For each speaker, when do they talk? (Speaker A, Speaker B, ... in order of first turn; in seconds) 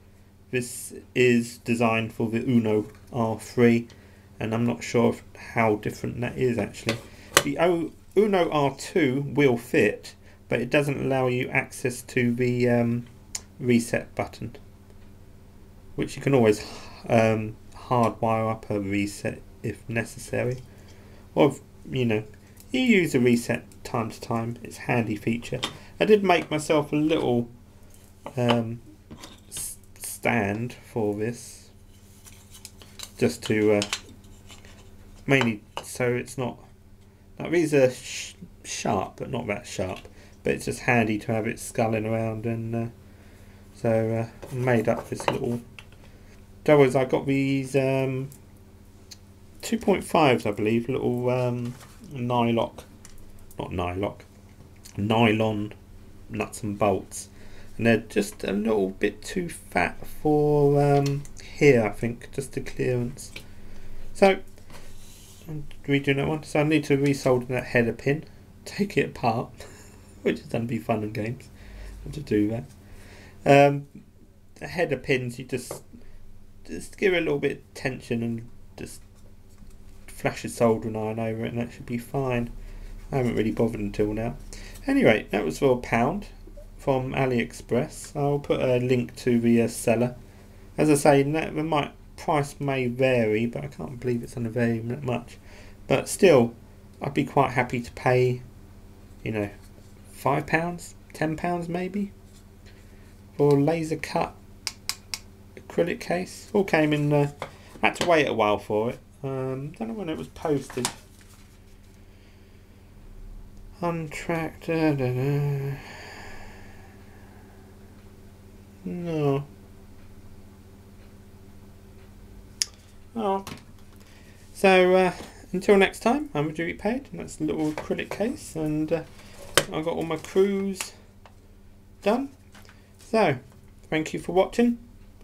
Speaker A: 0.5-14.6, 16.0-20.6, 21.3-27.5, 28.4-28.8, 29.5-31.7, 33.2-33.9, 35.2-36.7, 37.4-42.9, 43.8-45.6, 46.6-48.3, 49.6-52.9, 53.6-54.3, 55.0-55.7, 56.3-63.3, 64.1-64.4, 65.5-69.6, 70.2-71.5, 72.0-72.7, 73.4-74.0, 74.6-75.8, 76.7-79.0, 80.1-82.5, 83.1-90.2, 90.8-98.4, 99.2-99.5, 100.1-102.1, 103.4-104.4, 105.6-110.9, 113.8-116.3, 118.8-119.5, 123.1-123.5, 124.5-129.1, 129.7-130.9, 132.0-132.3, 133.1-134.8